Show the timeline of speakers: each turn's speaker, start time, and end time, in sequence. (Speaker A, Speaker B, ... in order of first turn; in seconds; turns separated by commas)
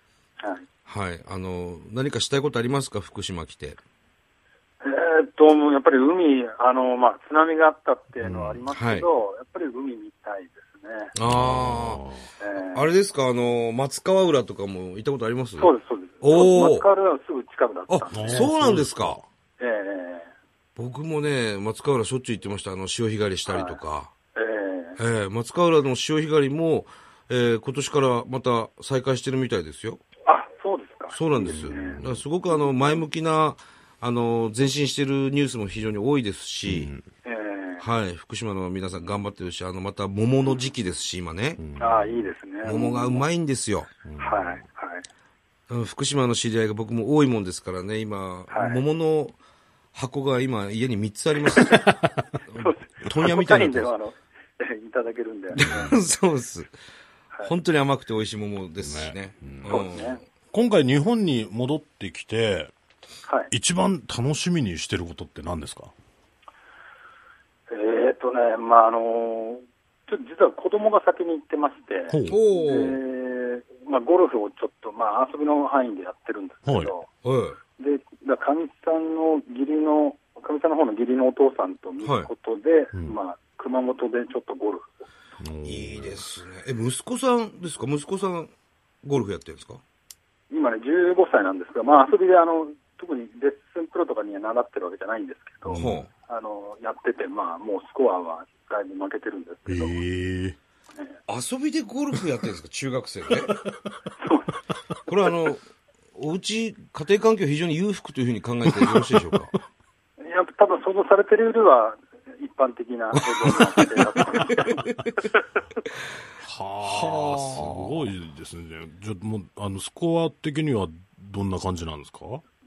Speaker A: 0.4-0.7, Speaker B: 0.9-3.8, Speaker A: 4.8-11.1, Speaker C: 8.2-8.7, Speaker B: 8.7-9.1, Speaker B: 11.1-16.9, Speaker C: 11.2-12.3, Speaker A: 12.4-12.9, Speaker A: 15.6-18.5, Speaker B: 17.9-19.2, Speaker C: 18.1-19.2, Speaker A: 19.6-20.3, Speaker B: 20.8-24.1, Speaker A: 23.5-23.8, Speaker A: 24.4-25.0, Speaker B: 25.0-30.0, Speaker A: 30.3-33.0, Speaker B: 31.1-36.9, Speaker C: 31.4-32.2, Speaker C: 36.6-37.0, Speaker A: 37.2-37.8, Speaker B: 37.8-41.6, Speaker C: 41.6-42.4, Speaker A: 41.8-43.3, Speaker B: 42.6-43.9, Speaker C: 44.0-44.6, Speaker A: 44.2-45.0, Speaker B: 45.7-49.4, Speaker A: 48.5-48.8, Speaker B: 49.9-51.9, Speaker C: 51.5-52.4, Speaker B: 52.5-53.9, Speaker A: 52.6-55.6, Speaker B: 55.5-56.7, Speaker C: 55.7-56.0, Speaker B: 57.4-60.2, Speaker C: 58.8-59.8, Speaker A: 59.7-60.2, Speaker C: 60.5-62.7, Speaker A: 63.3-63.5, Speaker C: 63.5-65.9, Speaker A: 67.7-77.1, Speaker C: 72.1-72.4, Speaker B: 72.3-73.0, Speaker C: 76.7-76.9, Speaker B: 77.2-77.6, Speaker A: 77.8-84.9, Speaker B: 82.0-82.3, Speaker C: 85.4-86.3, Speaker B: 85.7-88.5, Speaker B: 89.0-89.8, Speaker A: 90.5-100.0, Speaker C: 95.7-96.0, Speaker B: 95.7-96.1, Speaker C: 99.7-100.6, Speaker B: 101.3-103.6, Speaker C: 103.4-104.1, Speaker A: 104.2-104.6, Speaker B: 105.1-109.5, Speaker C: 108.7-109.6, Speaker A: 110.2-114.9, Speaker B: 113.3-114.9, Speaker C: 116.4-122.4, Speaker B: 116.8-118.0